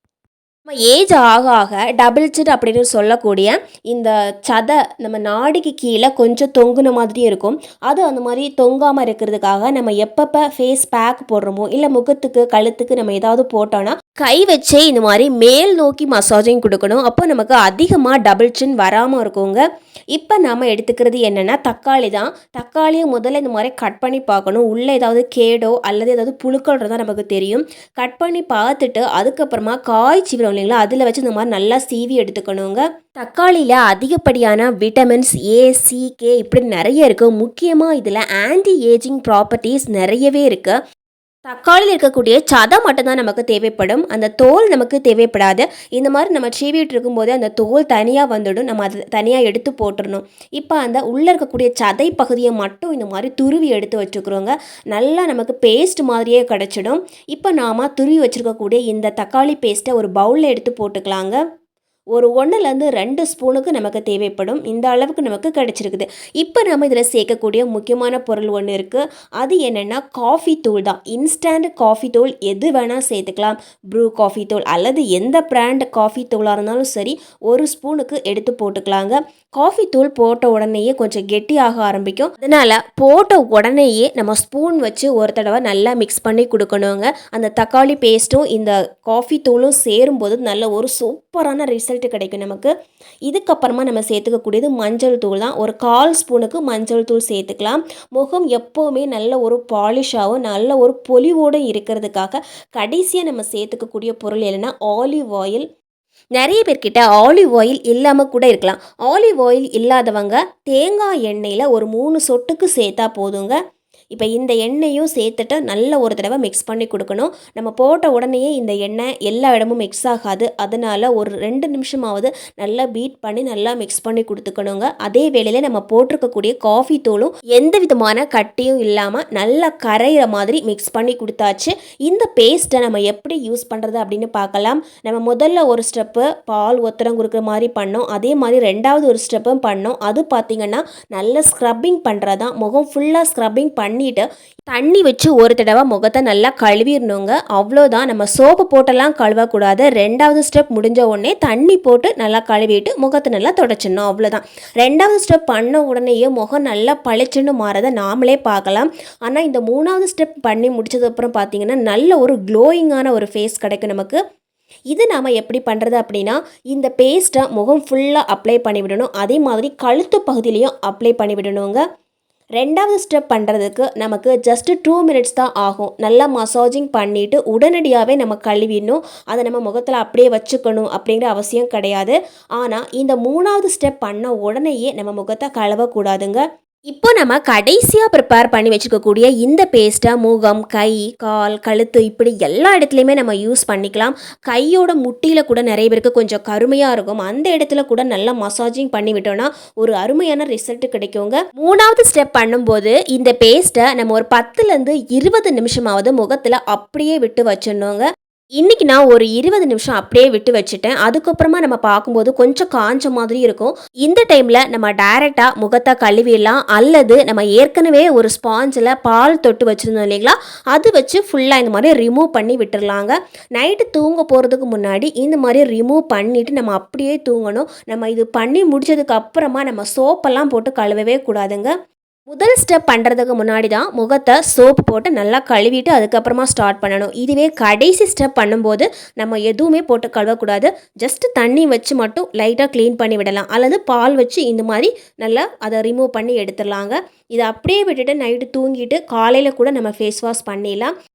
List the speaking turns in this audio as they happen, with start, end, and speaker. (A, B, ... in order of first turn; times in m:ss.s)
0:00.8-0:40.7 A
0:41.5-1:01.4 A
1:02.1-1:32.7 A
1:33.3-1:45.6 A
1:46.4-1:53.6 A
1:54.1-2:44.2 A
2:44.9-2:51.8 A
2:52.6-3:28.0 A
3:28.6-3:51.7 A
3:52.3-4:10.9 A